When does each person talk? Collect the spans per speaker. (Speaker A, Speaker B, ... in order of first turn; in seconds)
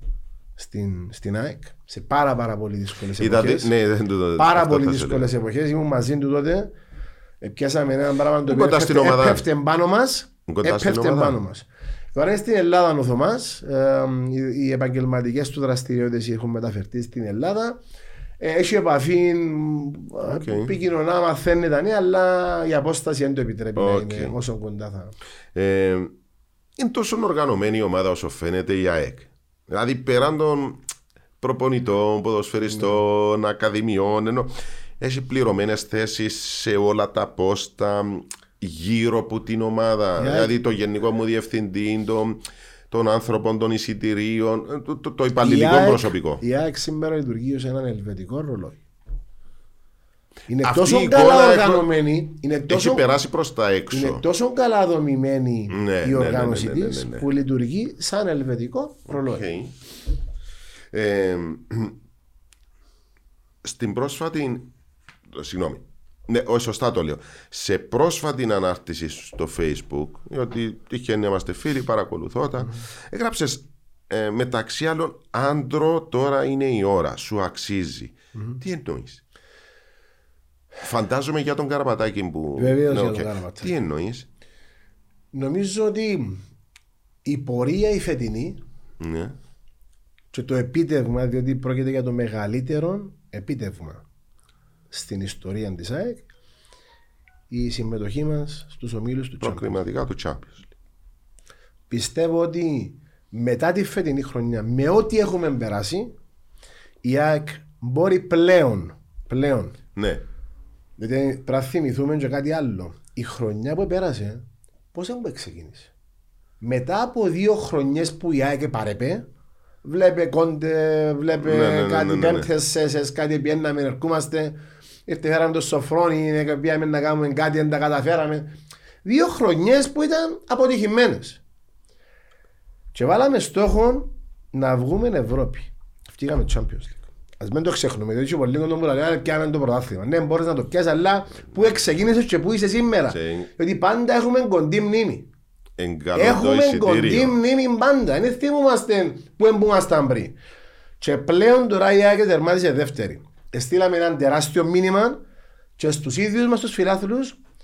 Speaker A: 0.6-3.7, 4.4-6.7, 7.4-17.8, 18.4-25.1, 40.2-40.5, 45.4-48.8, 50.5-53.0, 53.9-59.5, 82.6-83.7, 85.3-86.4, 87.2-88.6, 90.3-94.0, 94.9-96.3, 97.5-99.8, 101.9-106.2, 107.0-109.8, 111.0-115.9, 116.6-119.2, 119.8-128.5, 129.0-131.4, 132.9-145.3, 146.1-150.4, 151.0-155.2, 155.8-157.4
Speaker B: 3.2-5.3, 8.4-9.4, 10.5-11.4, 20.2-20.7, 23.8-24.4, 25.5-26.1, 26.8-30.8, 31.4-46.4, 50.6-51.9, 52.7-54.2, 55.7-57.2, 59.1-59.7, 60.9-62.0, 63.6-64.7, 65.3-79.2, 80.8-84.3, 89.0-89.3, 99.4-100.7, 109.9-110.2, 121.4-122.5, 143.1-143.5, 145.8-147.4